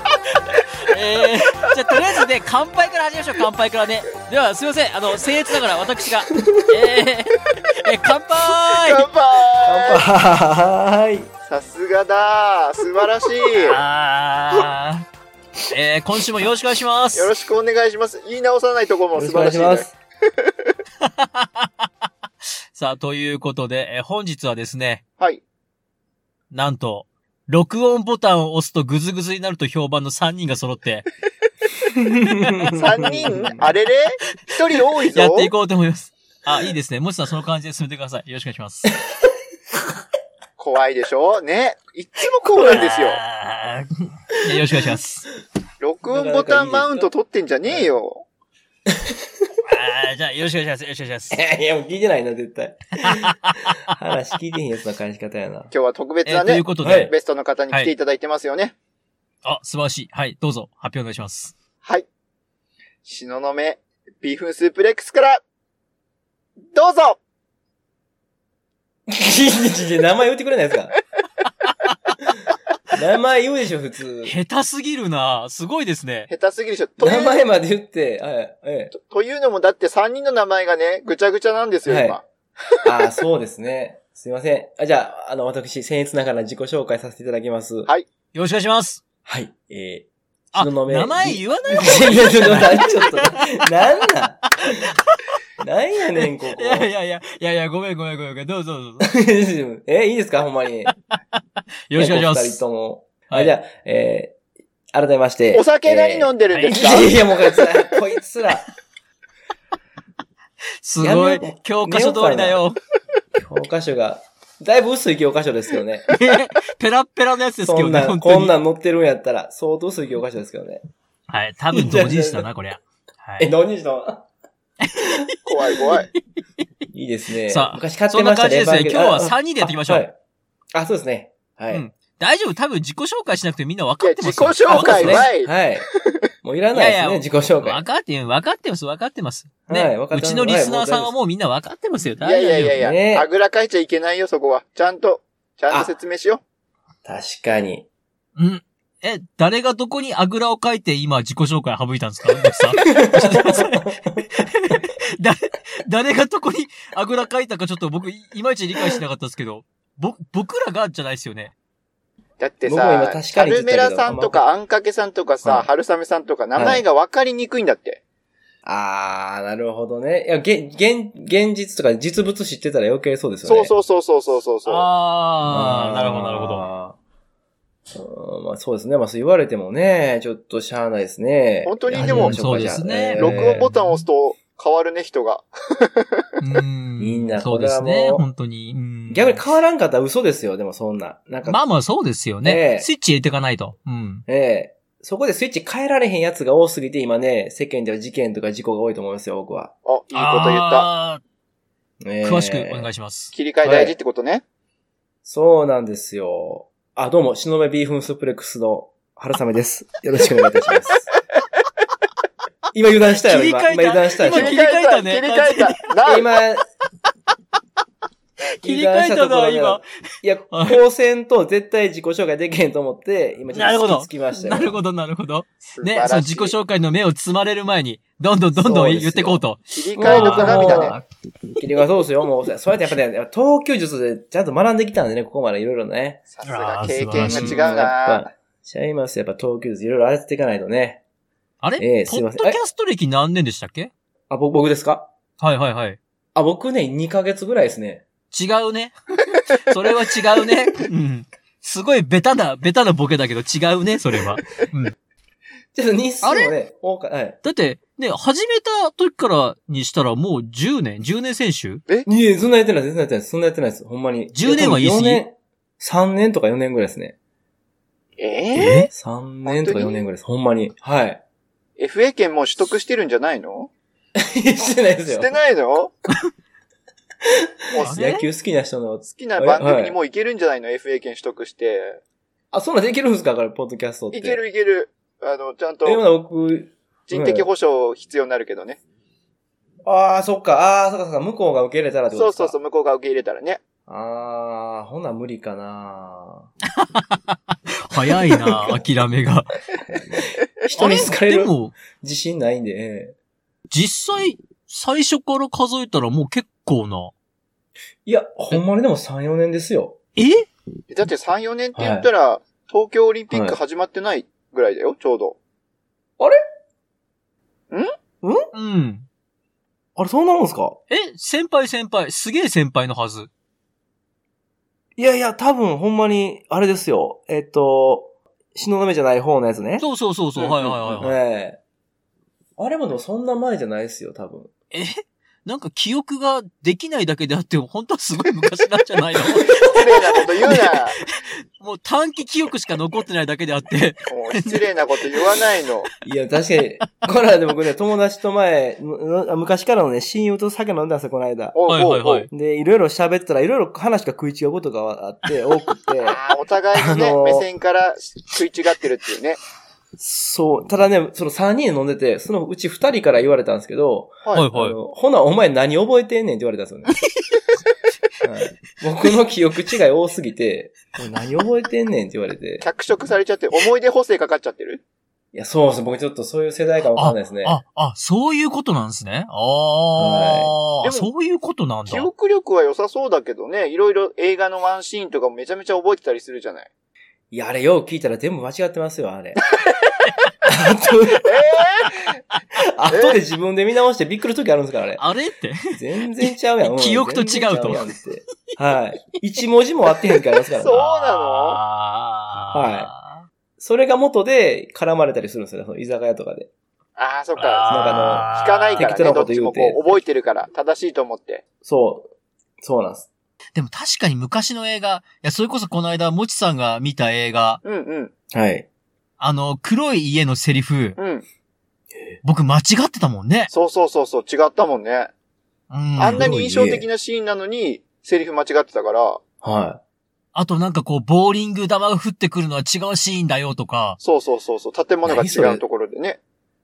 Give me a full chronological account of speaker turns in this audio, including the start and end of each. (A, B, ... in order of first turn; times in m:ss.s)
0:00.6-0:09.0 A
0:06.3-0:06.8 B
0:08.7-0:10.0 C
0:09.6-0:11.3 B
0:11.5-0:13.8 C
0:13.5-0:15.0 A
0:15.7-0:17.3 A
0:17.1-0:19.9 C
0:19.1-0:19.9 B
0:20.4-0:20.7 C
0:21.0-0:21.7 A
0:22.7-0:25.0 A
0:26.5-0:31.1 A
0:31.9-0:33.7 B
0:32.6-0:35.5 C
0:35.1-0:38.9 A
0:40.6-0:43.2 C
0:42.6-0:45.3 A
0:45.8-0:48.2 C
0:46.1-0:47.1 B
0:47.7-0:47.9 B
0:48.9-0:49.6 B
0:49.6-0:51.4 A
0:51.3-0:55.7 B
0:53.1-0:53.5 A
0:55.7-0:58.7 C
0:56.2-0:57.1 A
0:56.8-0:57.1 B
0:59.4-1:01.5 A
1:03.0-1:05.4 C
1:06.7-1:07.2 C
1:09.1-1:11.0 B
1:12.9-1:14.3 B
1:14.2-1:16.3 A
1:16.3-1:17.4 C
1:17.0-1:18.9 B
1:18.9-1:22.2 C
1:21.8-1:22.2 B
1:22.8-1:27.9 B
1:28.3-1:29.0 A
1:29.2-1:34.9 B
1:30.5-1:33.6 A
1:34.6-1:35.2 A
1:35.6-1:36.9 B
1:36.2-1:39.1 A
1:39.0-1:40.9 B
1:41.9-1:42.6 A
1:41.9-1:44.4 B
1:43.3-1:43.5 A
1:44.9-1:48.7 B
1:45.5-1:47.3 C
1:46.5-1:47.1 A
1:50.8-1:52.8 A
1:51.0-1:52.6 B
1:53.4-1:56.1 B
1:56.1-1:58.5 A
1:57.6-2:00.8 B
2:01.3-2:03.5 A
2:01.7-2:02.5 B
2:03.4-2:04.2 B
2:04.9-2:05.2 B
2:05.4-2:06.1 C
2:06.9-2:10.1 B
2:07.5-2:10.0 A
2:10.7-2:11.8 B
2:11.7-2:15.3 A
2:14.0-2:15.5 C
2:14.7-2:15.8 B
2:16.4-2:17.8 B
2:16.7-2:22.8 A
2:19.7-2:21.1 B
2:22.2-2:26.4 C
2:22.7-2:23.3 B
2:27.0-2:27.8 B
2:28.4-2:41.5 A
2:32.8-2:34.2 B
2:42.4-2:48.0 C
2:42.6-2:44.4 B
2:45.4-2:45.7 B
2:46.5-2:46.8 B
2:48.6-2:53.7 B
2:53.4-2:54.9 C
2:54.6-2:56.6 A
2:55.5-2:57.0 B
2:57.9-3:03.6 B
3:01.6-3:02.4 C
3:01.9-3:04.0 A
3:03.2-3:06.3 C
3:06.4-3:09.4 A
3:07.0-3:08.2 B
3:09.1-3:11.6 B
3:11.4-3:14.2 A
3:12.4-3:12.9 B
3:14.3-3:19.7 B
3:19.8-3:20.9 C
3:20.1-3:21.2 A
3:22.0-3:22.9 B
3:22.2-3:23.3 A
3:23.3-3:24.4 C
3:23.6-3:23.9 B
3:25.2-3:31.1 B
3:32.7-3:34.6 B
3:33.2-3:35.9 A
3:34.2-3:36.3 C
3:36.0-3:36.6 B
3:38.4-3:39.8 A
3:38.6-3:44.8 B
3:40.5-3:40.8 A
3:43.5-3:51.0 A
3:45.7-3:46.5 C
3:48.5-3:49.4 B
3:49.7-3:51.0 C
3:50.0-3:51.0 B
3:51.6-3:56.3 B
3:56.3-3:58.3 C
3:56.4-3:57.8 A
3:57.1-4:01.0 B
4:01.6-4:03.9 A
4:01.8-4:02.6 B
4:04.3-4:05.1 B
4:05.4-4:06.0 A
4:06.3-4:08.0 B
4:08.3-4:08.9 A
4:09.5-4:14.9 A
4:15.7-4:17.4 B
4:16.2-4:16.5 A
4:17.4-4:21.8 A
4:22.0-4:27.1 B
4:24.3-4:25.2 A
4:28.2-4:28.8 C
4:28.5-4:28.9 A
4:28.9-4:31.2 B
4:29.4-4:30.1 C
4:31.8-4:33.7 C
4:34.2-4:35.3 B
4:35.1-4:35.9 C
4:37.2-4:40.0 B
4:37.7-4:38.0 C
4:37.8-4:38.2 A
4:39.1-4:42.0 C
4:42.5-4:44.4 B
4:44.1-4:46.0 C
4:45.8-4:47.5 B
4:47.1-4:48.8 C
4:49.8-4:52.5 B
4:52.1-4:53.6 C
4:53.9-4:56.5 B
4:56.7-4:59.5 A
4:58.1-4:58.8 B
5:00.1-5:03.1 B
5:00.8-5:01.8 A
5:03.7-5:07.1 A
5:08.0-5:10.0 B
5:10.2-5:10.5 A
5:10.9-5:15.4 C
5:11.8-5:12.1 B
5:13.3-5:13.6 B
5:18.2-5:18.5 B
5:18.5-5:19.0 A
5:20.0-5:20.8 B
5:20.9-5:23.3 A
5:25.0-5:29.8 B
5:29.8-5:31.2 A
5:30.4-5:31.6 B
5:32.6-5:34.5 B
5:34.7-5:45.3 A
5:39.3-5:39.6 B
5:39.6-5:41.0 C
5:44.1-5:45.9 C
5:46.0-5:51.6 B
5:51.5-5:52.3 C
5:51.7-5:52.3 A
5:52.3-5:56.2 B
5:56.0-5:59.4 C
5:56.8-5:57.4 B
6:00.0-6:07.0 B
6:04.3-6:04.8 A
6:08.2-6:12.6 B
6:12.6-6:14.8 C
6:15.3-6:17.6 B
6:17.0-6:22.1 A
6:20.0-6:20.5 B
6:20.8-6:21.1 C
6:21.8-6:26.7 C
6:27.3-6:29.4 B
6:30.4-6:31.3 B
6:31.2-6:32.2 C
6:32.6-6:35.0 B
6:32.9-6:33.2 C
6:35.0-6:38.0 A
6:35.7-6:40.8 B
6:40.6-6:41.6 C
6:40.6-6:43.3 A
6:42.5-6:42.9 B
6:43.6-6:46.5 B
6:47.0-6:51.4 C
6:47.4-6:48.9 A
6:47.7-6:49.9 B
6:51.6-6:52.1 B
6:52.6-6:53.1 B
6:53.5-6:57.6 A
6:57.6-6:58.1 C
6:58.3-6:58.7 B
6:59.2-7:01.0 A
7:01.0-7:01.2 C
7:02.2-7:03.5 A
7:03.5-7:05.1 C
7:05.7-7:06.3 A
7:06.0-7:09.2 C
7:06.1-7:06.9 B
7:09.4-7:09.8 B
7:10.3-7:14.0 A
7:14.0-7:16.2 C
7:15.0-7:15.6 B